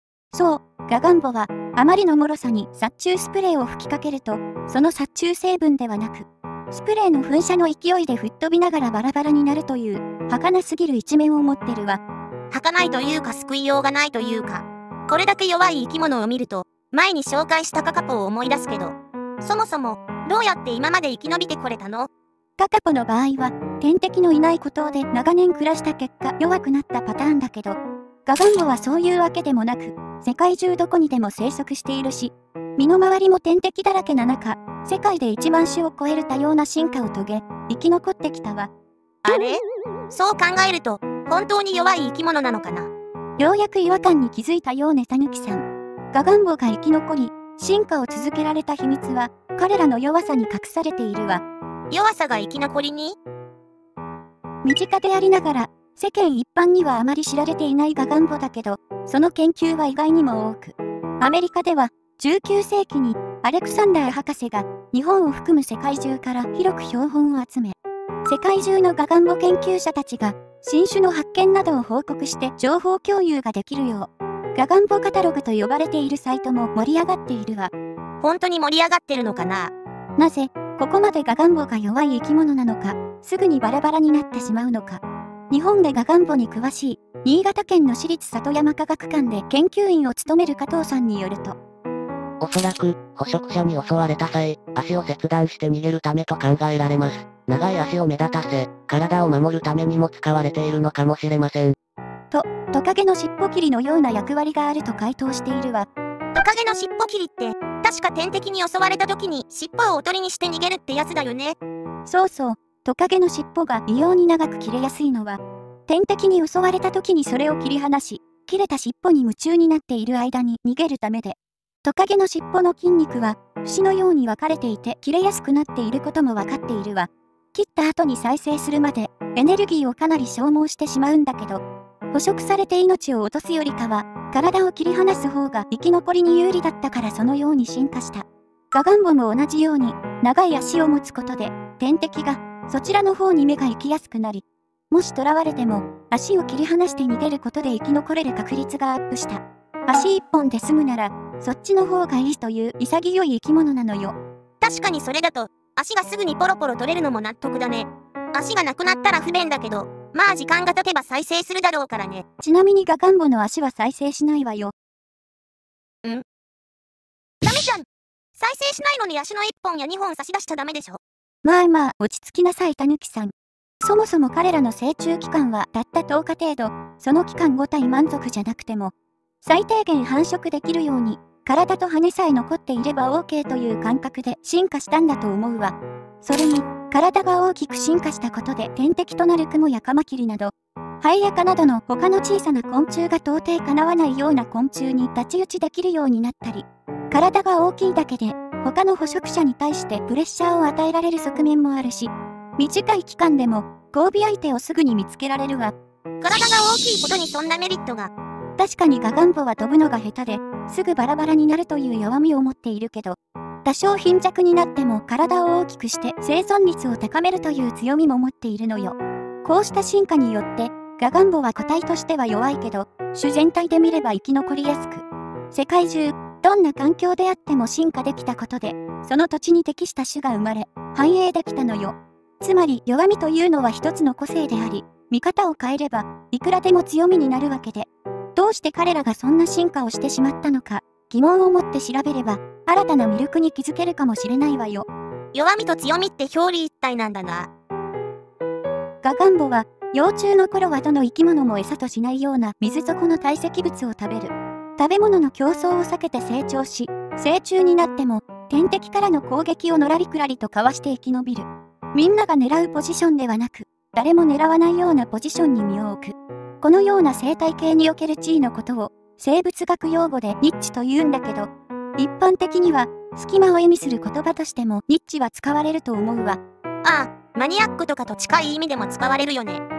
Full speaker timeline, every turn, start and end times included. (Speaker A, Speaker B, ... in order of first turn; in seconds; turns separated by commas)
Speaker A: 0.3-12.0, Speaker B: 12.5-22.1, Speaker A: 22.6-38.7, Speaker B: 39.2-42.9, Speaker A: 43.4-51.4, Speaker B: 51.9-53.1, Speaker A: 54.6-67.7, Speaker A: 68.2-77.7, Speaker B: 78.2-79.7, Speaker A: 80.2-91.6, Speaker C: 92.4-101.8, Speaker A: 102.3-105.9, Speaker B: 106.3-111.6, Speaker A: 112.0-131.6, Speaker A: 132.1-154.1, Speaker B: 154.6-162.2, Speaker A: 162.4-164.7, Speaker B: 167.4-167.8, Speaker B: 168.4-171.0, Speaker A: 171.4-205.7, Speaker B: 206.2-208.1, Speaker A: 208.6-244.9, Speaker B: 245.3-247.5, Speaker A: 249.0-276.4, Speaker B: 276.8-279.6